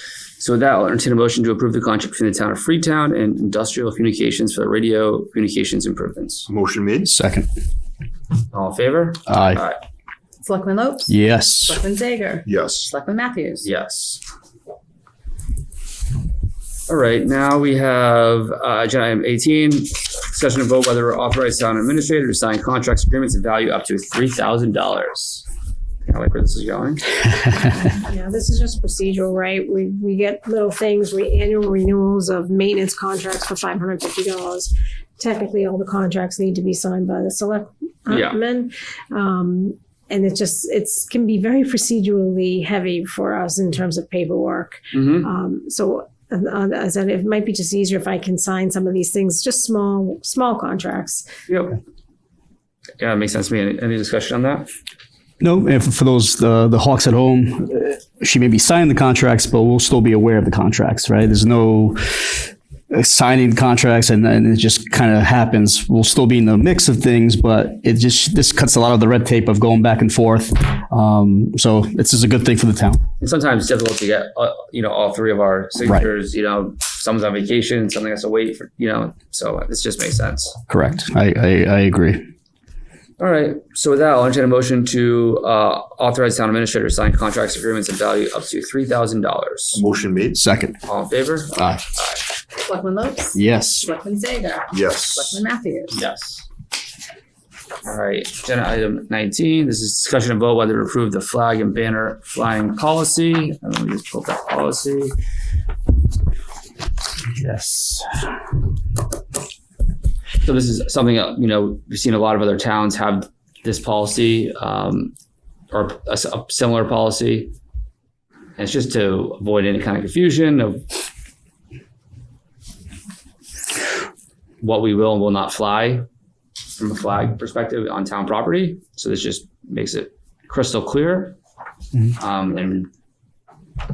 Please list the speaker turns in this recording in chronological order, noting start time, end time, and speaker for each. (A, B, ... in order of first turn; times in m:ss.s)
0:00.4-0:06.5 A
0:06.5-0:07.1 B
0:07.1-0:07.5 C
0:08.5-0:09.8 A
0:09.3-0:09.6 C
0:10.4-0:13.7 D
0:11.1-0:11.8 C
0:12.4-0:12.9 B
0:13.6-0:14.2 A
0:16.9-0:25.5 A
0:26.1-0:27.1 A
0:27.9-0:51.3 E
0:38.1-0:38.4 A
0:44.9-0:45.3 A
0:51.5-0:51.8 A
0:53.0-0:54.7 A
0:55.4-1:13.0 C
1:13.2-1:20.6 A
1:20.7-1:22.2 C
1:23.2-1:29.8 A
1:29.7-1:30.4 B
1:30.3-1:30.8 C
1:30.9-1:32.2 A
1:31.5-1:31.8 C
1:32.6-1:36.0 D
1:33.3-1:33.9 C
1:34.7-1:35.4 B
1:35.9-1:36.5 A
1:37.8-1:45.1 A
1:47.4-1:48.1 A
1:50.4-1:55.1 A
1:55.7-1:57.5 A
1:58.6-2:00.8 A
2:04.6-2:06.0 A
2:06.8-2:11.4 A
2:12.1-2:12.9 A